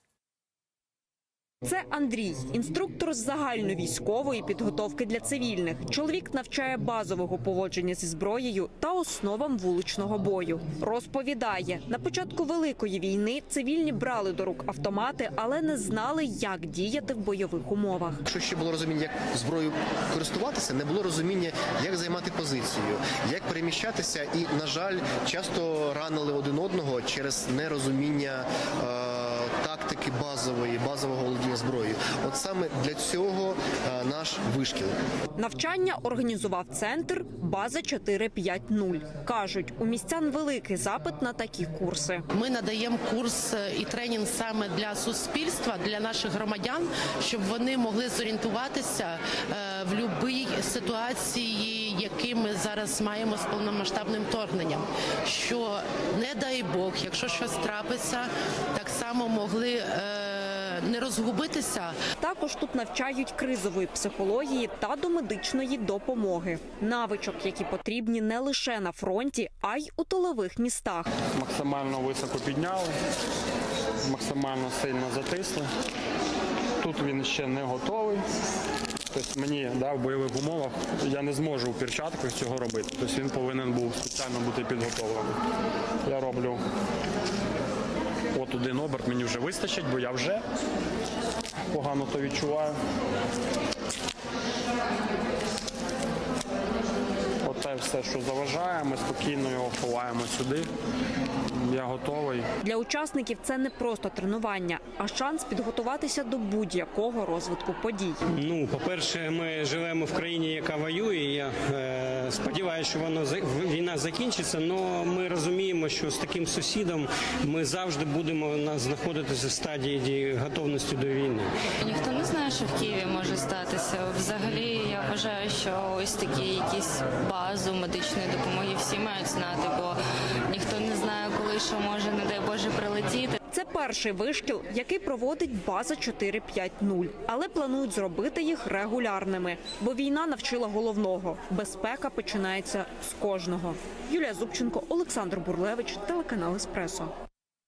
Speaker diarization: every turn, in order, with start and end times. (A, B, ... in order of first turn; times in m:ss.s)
0:01.6-0:18.2 A
0:18.3-0:34.9 B
0:35.4-0:42.2 A
0:42.3-1:02.0 C
1:02.2-1:11.1 A
1:11.3-1:12.9 D
1:14.0-1:15.7 D
1:16.8-1:18.2 D
1:19.1-1:25.4 D
1:26.0-1:26.6 D
1:28.3-1:30.4 D
1:31.7-1:32.8 D
1:37.4-1:40.7 D
1:41.6-1:42.4 D
1:42.6-1:48.2 A
1:48.3-2:01.5 E
2:01.8-2:10.0 F
2:10.5-2:13.4 F
2:13.5-2:27.1 A